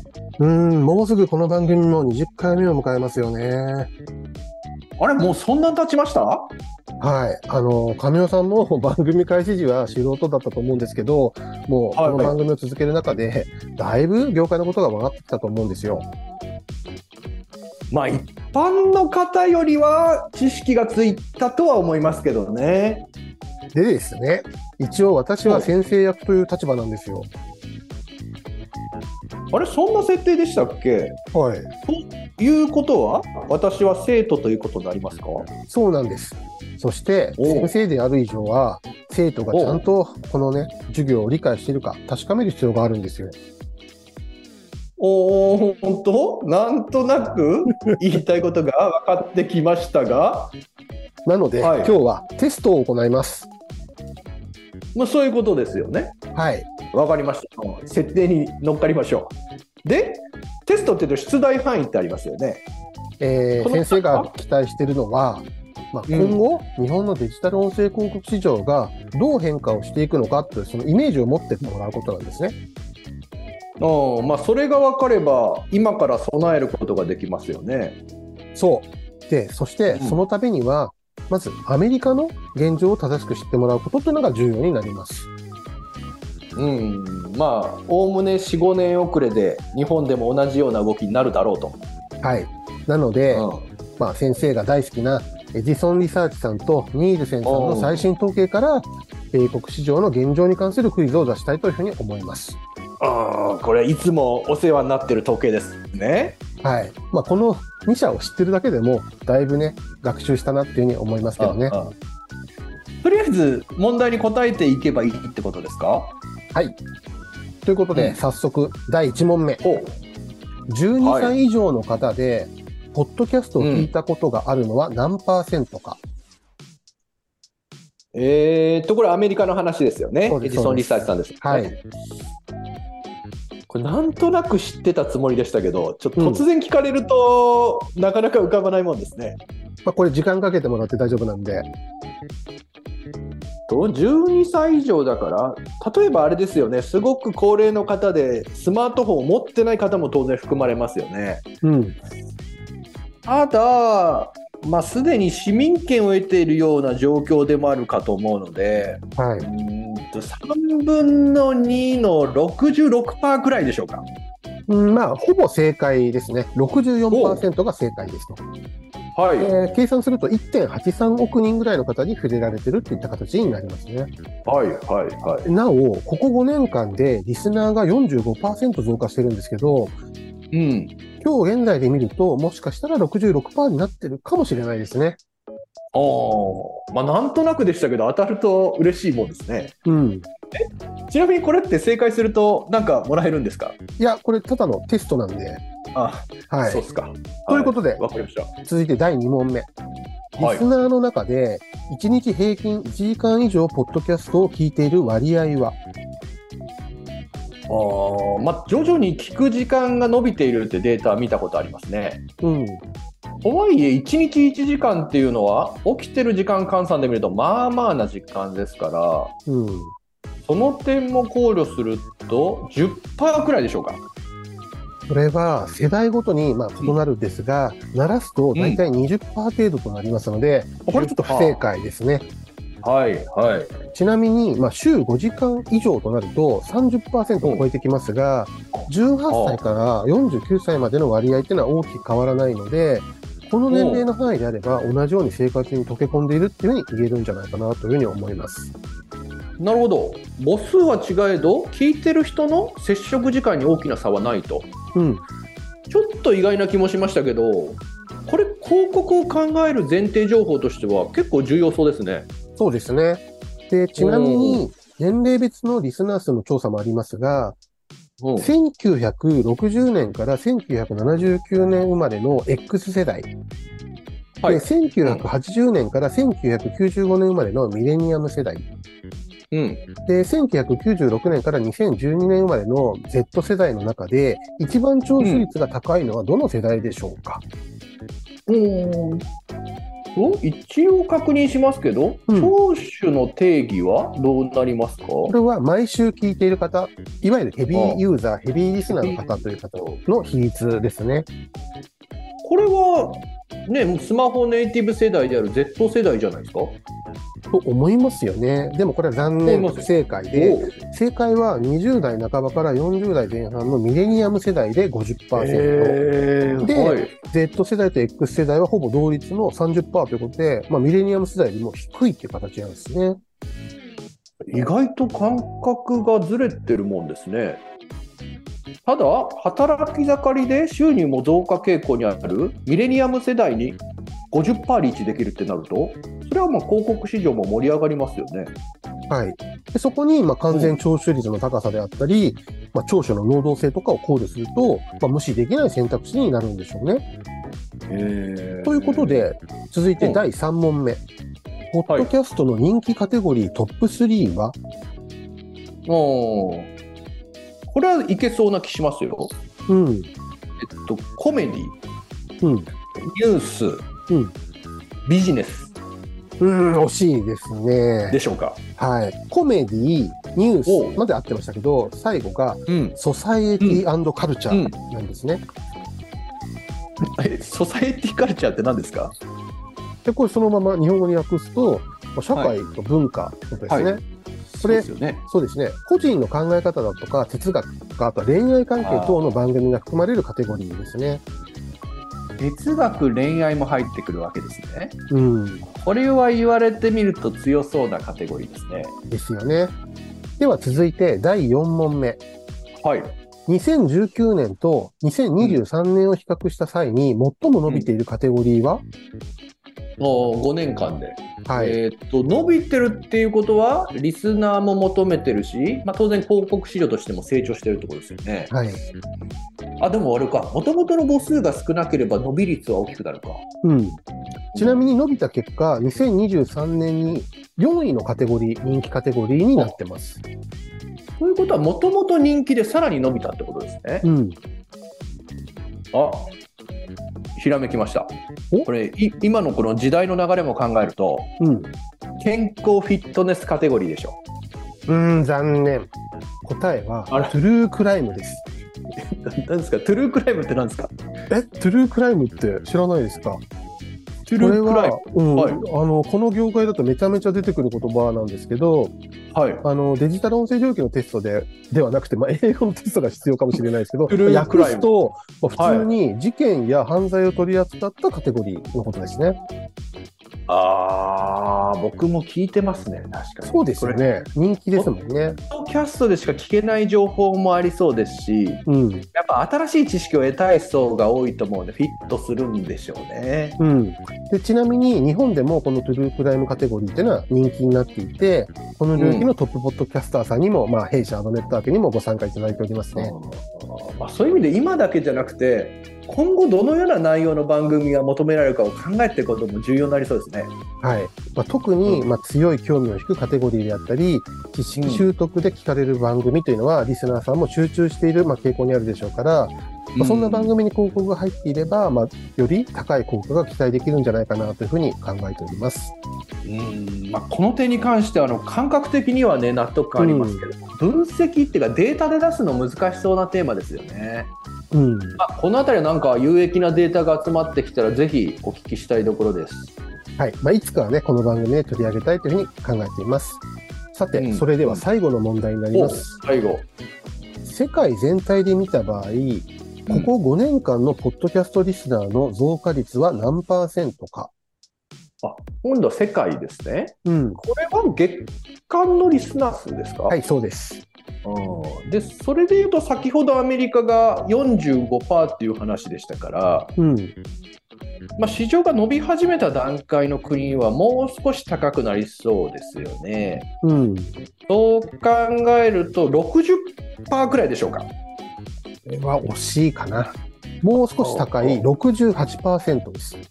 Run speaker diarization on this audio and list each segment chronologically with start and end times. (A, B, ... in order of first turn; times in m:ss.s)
0:00.4-0:03.9 A
0:05.0-0:06.5 B
0:07.0-0:16.1 A
0:12.0-0:12.4 B
0:17.9-0:23.1 B
0:23.7-0:27.3 A
0:25.4-0:25.7 B
0:29.5-0:31.2 B
0:31.3-0:31.7 A
0:31.9-0:35.5 B
0:35.7-0:43.4 A
0:37.4-0:37.7 B
0:39.5-0:39.8 B
0:45.0-0:50.5 B
0:51.2-0:53.5 A
0:51.6-0:52.0 B
0:55.0-0:56.2 B
0:56.4-0:56.7 A
0:56.9-1:02.6 B
1:03.2-1:12.6 A
1:03.6-1:04.3 B
1:06.1-1:06.4 B
1:13.8-1:18.0 B
1:18.6-1:25.3 A
1:19.9-1:20.2 B
1:26.6-1:31.8 B
1:32.2-1:33.5 A
1:33.3-1:33.7 B
1:34.0-1:42.6 A
1:37.4-1:38.1 B
1:43.0-1:46.4 B
1:46.6-1:51.8 A
1:51.4-1:52.0 B
1:53.0-1:56.2 B
1:56.5-1:56.8 A
1:57.6-1:59.6 A
1:57.9-1:58.2 B
1:59.6-2:00.0 B
2:00.7-2:06.0 A
2:01.0-2:01.4 B
2:03.6-2:03.9 B
2:08.1-2:11.8 B
2:10.3-2:11.8 A
2:13.7-2:19.4 B
2:16.2-2:16.4 A
2:19.8-2:21.7 A
2:23.7-2:31.4 B
2:31.6-2:32.0 A
2:33.3-2:44.1 B
2:39.2-2:39.5 A
2:44.7-2:48.4 A
2:47.1-2:47.5 B
2:49.2-2:49.5 B
2:49.4-2:54.1 A
2:54.4-2:55.5 B
2:55.4-3:00.0 A
3:00.5-3:00.9 B
3:01.2-3:05.2 A
3:05.9-3:09.7 B
3:09.8-3:10.3 A
3:10.6-3:13.8 B
3:14.0-3:15.6 A
3:15.9-3:18.5 B
3:16.5-3:16.8 A
3:17.5-3:18.0 A
3:18.7-3:19.7 A
3:20.4-3:25.8 A
3:20.4-3:20.7 B
3:27.7-3:32.2 B
3:32.4-3:32.8 A
3:33.4-3:39.3 B
3:39.5-3:39.9 A
3:40.5-3:44.0 B
3:45.1-3:52.3 A
3:48.6-3:48.8 B
3:50.9-3:51.6 B
3:52.8-3:53.7 B
3:53.9-4:08.7 A
3:58.7-3:59.6 B
4:03.7-4:04.1 B
4:09.6-4:14.7 B
4:14.9-4:15.2 A
4:15.9-4:22.3 B
4:22.6-4:27.6 A
4:24.0-4:24.6 B
4:28.2-4:28.5 B
4:28.4-4:33.3 A
4:34.4-4:35.3 B
4:34.5-4:38.7 A
4:39.5-4:39.9 B
4:40.1-4:47.4 A
4:45.2-4:45.5 B
4:48.5-4:49.3 B
4:50.2-4:55.3 B
4:52.3-4:52.6 A
4:55.3-5:01.3 A
4:57.7-4:58.0 B
4:58.9-5:00.0 B
5:02.4-5:06.8 B
5:07.5-5:16.0 A
5:09.5-5:10.8 B
5:15.4-5:17.2 B
5:16.6-5:23.2 A
5:24.5-5:27.6 B
5:28.9-5:38.5 B
5:39.1-5:47.0 A
5:40.5-5:40.8 B
5:47.9-5:49.3 B
5:48.6-5:51.0 A
5:50.0-5:50.2 B
5:51.7-5:54.6 A
5:55.9-5:56.7 B
5:57.7-5:59.3 B
5:59.7-6:00.1 A
6:00.6-6:01.8 B
6:02.4-6:02.7 A
6:02.9-6:03.8 B
6:05.1-6:05.7 B
6:06.4-6:08.2 A
6:08.1-6:08.6 B
6:08.8-6:15.4 A
6:10.7-6:11.0 B
6:12.7-6:13.0 B
6:14.5-6:14.8 B
6:17.2-6:19.2 B
6:20.0-6:24.0 A
6:23.7-6:25.2 B
6:24.6-6:31.2 A
6:28.8-6:29.3 B
6:32.4-6:35.0 B
6:35.1-6:35.6 A
6:35.7-6:38.9 B
6:39.1-6:39.7 A
6:40.4-6:42.2 A
6:42.8-6:43.1 B
6:43.5-6:48.8 A
6:50.0-6:58.5 B
6:51.5-6:51.8 A
6:58.5-6:58.8 A
6:59.8-7:03.4 B
7:03.6-7:04.0 A
7:04.5-7:04.8 B
7:04.5-7:10.2 A
7:11.2-7:14.1 B
7:14.0-7:14.4 A
7:15.9-7:16.3 B
7:17.4-7:18.1 B
7:18.7-7:21.3 B
7:21.4-7:21.7 A
7:22.2-7:24.2 B
7:24.9-7:25.9 A
7:26.4-7:28.4 A
7:29.0-7:30.9 B
7:31.3-7:33.4 A
7:34.3-7:35.6 B
7:34.4-7:39.0 A
7:39.3-7:39.7 B
7:39.6-7:49.4 A
7:44.1-7:44.9 B
7:45.6-7:45.9 B
7:50.5-7:54.0 B
7:53.4-7:55.4 A
7:55.5-7:58.6 B
7:58.7-7:59.1 A
7:59.1-8:03.6 B
8:03.6-8:13.1 A
8:09.0-8:09.3 B
8:13.0-8:20.5 B
8:20.8-8:36.0 A
8:24.8-8:25.1 B
8:30.0-8:30.6 B
8:36.4-8:44.3 B
8:40.0-8:40.5 A
8:44.7-8:45.2 A
8:45.2-8:49.8 B
8:50.2-8:53.4 A
8:53.9-8:56.2 A
8:54.2-8:54.8 B
8:55.7-8:56.6 B
8:57.4-9:04.3 A
9:05.2-9:10.2 B
9:07.0-9:07.4 A
9:10.1-9:10.8 A
9:11.2-9:16.8 B
9:16.8-9:17.2 A
9:18.2-9:23.5 B
9:23.6-9:24.2 A
9:24.5-9:27.9 B
9:28.9-9:33.2 A
9:31.0-9:31.7 B